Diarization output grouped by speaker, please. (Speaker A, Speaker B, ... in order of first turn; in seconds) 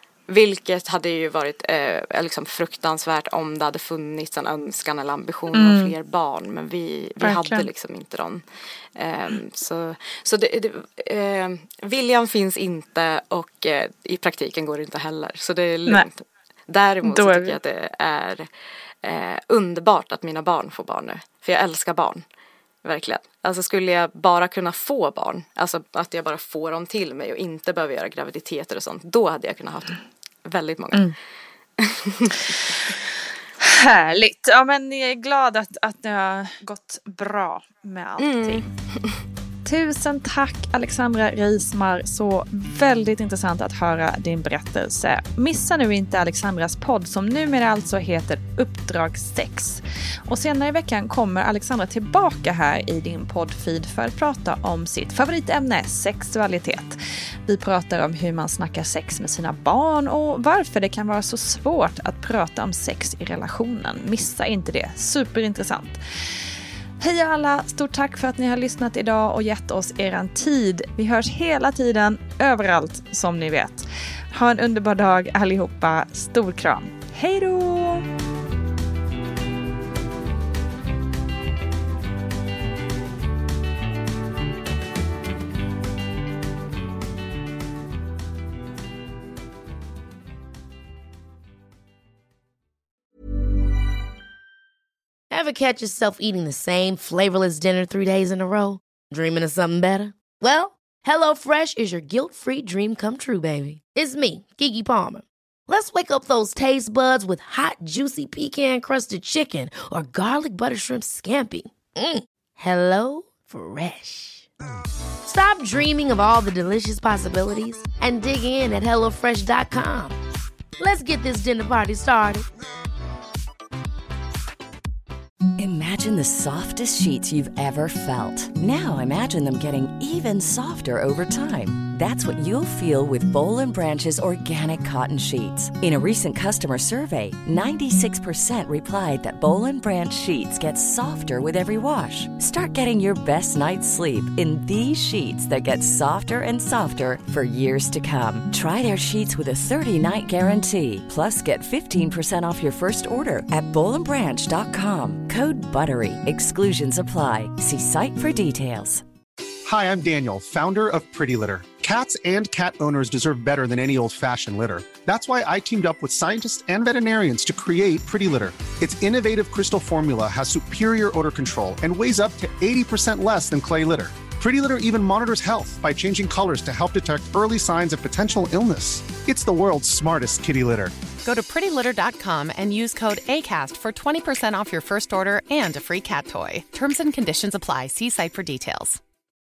Speaker A: 0.3-8.4, 8.9-18.5, 19.0-22.2, 22.8-31.1, 31.8-32.9, 38.2-39.2
Speaker B: 5.5-5.9, 7.2-7.7, 17.0-17.6, 33.6-38.6, 39.6-66.4, 67.0-78.0
Speaker C: 95.3-114.5, 115.2-120.2, 120.8-122.5
Speaker D: 125.6-159.0
Speaker E: 159.7-180.9
Speaker F: 181.2-189.0